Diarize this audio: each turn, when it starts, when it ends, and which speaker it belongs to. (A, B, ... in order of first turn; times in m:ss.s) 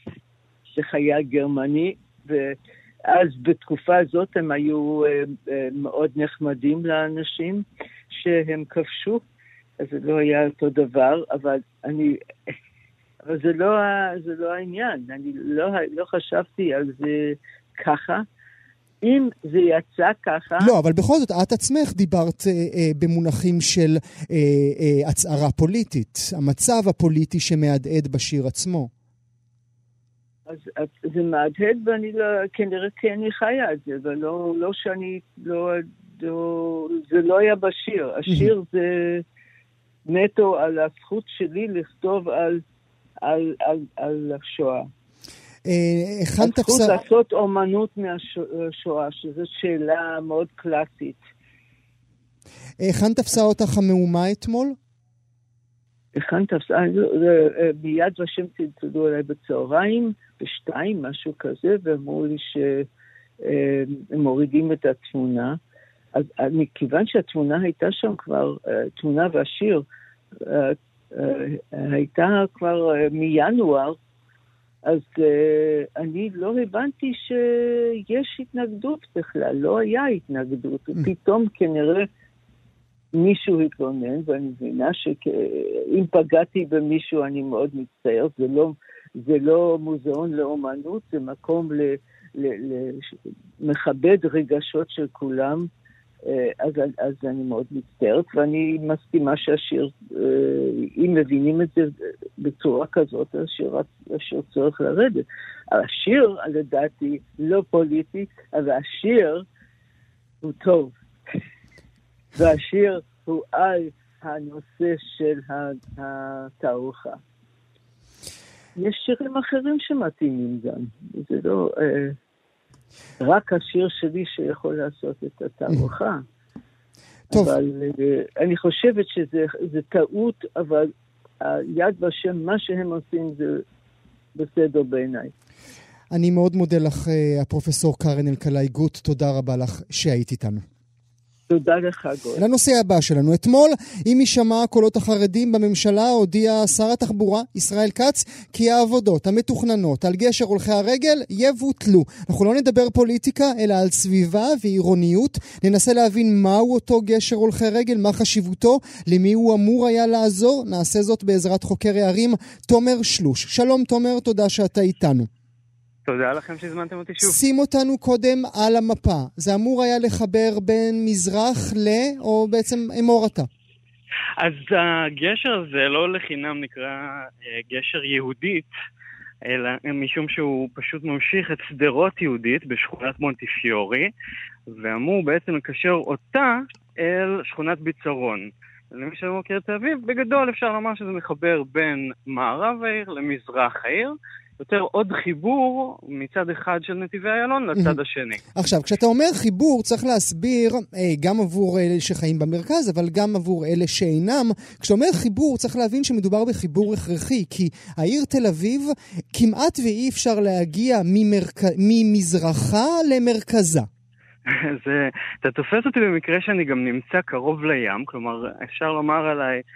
0:00.7-0:02.6 A
0:03.1-0:09.2 A
0:09.8-0:12.5 A
0:13.3-0:18.2 A
0:19.0-0:20.7 A
0:20.6-0:28.9 B
0:30.5-0:39.2 A
0:40.1-0:42.6 A
0:43.2-0:44.9 A
0:45.7-0:47.0 B
0:46.4-0:51.2 A
0:52.8-0:54.8 B
0:56.1-1:02.9 A
1:03.4-1:05.6 A
1:06.1-1:09.9 A
1:10.4-1:14.0 A
1:14.8-1:22.1 A
1:23.2-1:33.1 A
1:33.6-1:35.7 A
1:36.3-1:49.5 A
1:50.4-1:50.9 A
1:52.4-1:57.2 A
1:58.8-2:02.2 A
2:03.2-2:06.2 A
2:07.3-2:07.6 B
2:07.3-2:13.6 A
2:14.4-2:15.3 A
2:16.1-2:20.6 B
2:21.5-2:22.4 A
2:22.4-2:45.3 B
2:46.1-2:47.4 C
2:47.2-2:53.5 B
2:54.4-2:58.7 C
2:59.5-3:04.1 C
3:04.7-3:18.4 C
3:18.6-3:33.9 B
3:34.5-3:39.6 C